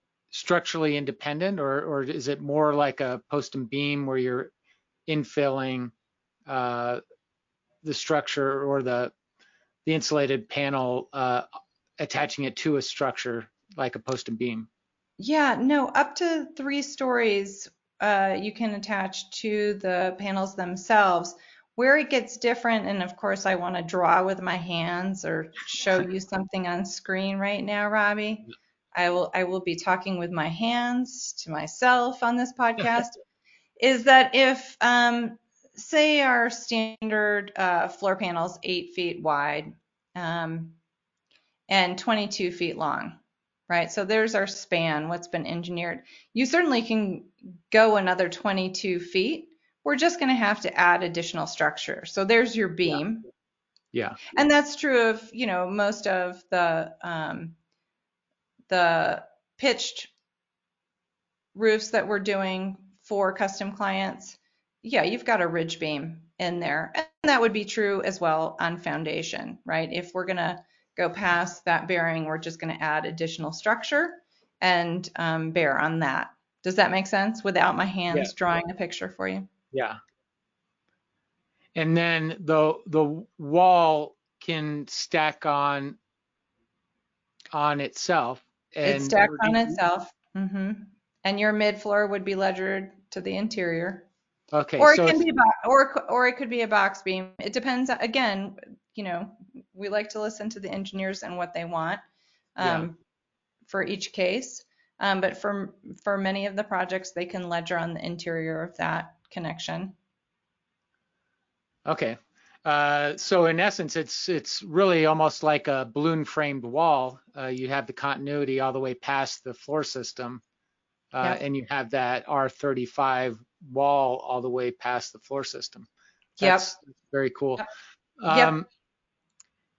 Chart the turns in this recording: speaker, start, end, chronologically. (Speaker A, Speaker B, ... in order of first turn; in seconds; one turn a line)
Speaker A: 0.3-4.5
Speaker A: 5.1-5.9
Speaker A: 6.5-7.0
Speaker A: 7.8-9.1
Speaker A: 9.8-11.4
Speaker A: 12.0-14.7
Speaker B: 15.2-33.2
Speaker B: 33.8-40.8
Speaker B: 41.7-53.3
Speaker A: 53.9-54.2
Speaker B: 54.3-57.6
Speaker B: 58.7-60.1
Speaker B: 61.5-79.5
Speaker A: 79.7-80.0
Speaker A: 81.8-86.0
Speaker A: 87.5-89.8
Speaker B: 88.8-94.1
Speaker A: 94.5-95.2
Speaker B: 94.8-102.0
Speaker B: 102.6-103.0
Speaker A: 102.6-102.9
Speaker B: 103.7-110.0
Speaker A: 111.8-120.4
Speaker A: 121.1-125.9
Speaker B: 126.4-126.7
Speaker A: 126.4-127.6
Speaker A: 128.2-128.7
Speaker B: 128.3-128.6